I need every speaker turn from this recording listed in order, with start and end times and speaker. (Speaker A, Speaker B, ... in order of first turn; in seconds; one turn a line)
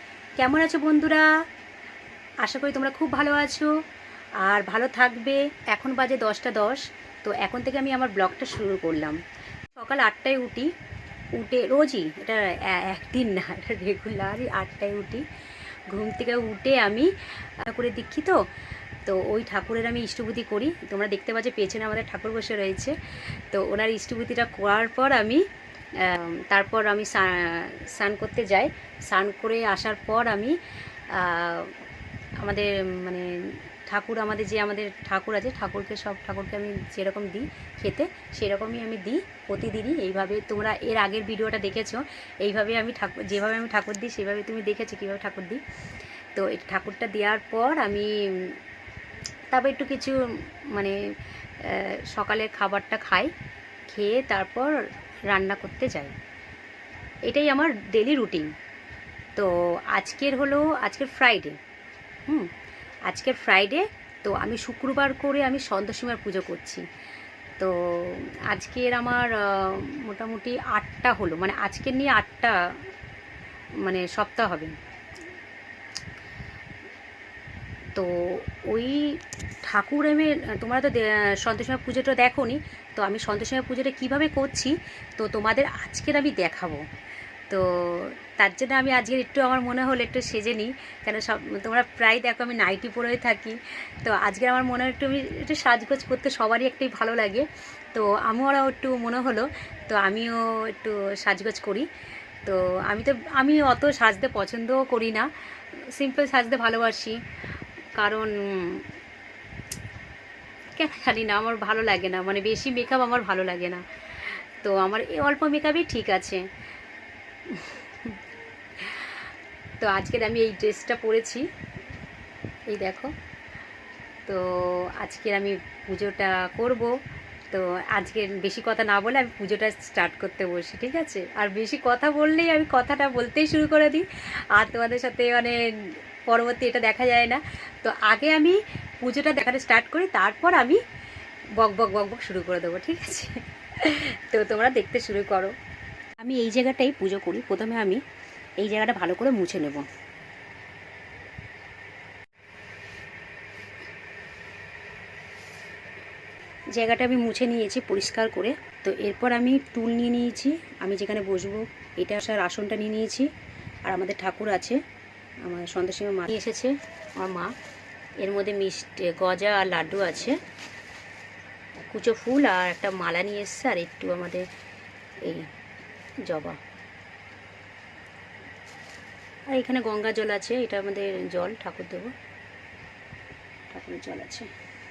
Speaker A: 0.4-1.3
Speaker A: 2.4-3.7
Speaker A: 4.4-9.2
Speaker A: 9.8-10.7
Speaker A: 11.4-15.2
Speaker A: 15.9-18.4
Speaker A: 19.1-25.4
Speaker A: 26.0-30.6
Speaker A: 31.1-31.7
Speaker A: 32.4-45.6
Speaker A: 46.4-48.6
Speaker A: 49.5-51.0
Speaker A: 51.6-53.3
Speaker A: 53.9-54.8
Speaker A: 55.3-56.2
Speaker A: 57.2-58.5
Speaker A: 59.4-61.6
Speaker A: 63.1-66.8
Speaker A: 67.6-72.8
Speaker A: 73.8-74.8
Speaker A: 78.0-86.8
Speaker A: 87.5-101.9
Speaker A: 102.5-107.2
Speaker A: 108.0-108.9
Speaker A: 110.7-116.4
Speaker A: 117.5-118.1
Speaker A: 118.8-119.1
Speaker A: 119.8-121.5
Speaker A: 122.7-123.1
Speaker A: 124.3-126.9
Speaker A: 127.5-140.8
Speaker A: 141.6-145.5
Speaker A: 146.2-148.0
Speaker A: 148.6-149.9
Speaker A: 156.7-163.3
Speaker A: 163.8-164.8
Speaker A: 165.4-167.5
Speaker A: 168.2-170.4
Speaker A: 171.8-174.5
Speaker A: 175.2-175.5
Speaker A: 176.3-176.6
Speaker A: 179.5-182.1
Speaker A: 183.7-184.5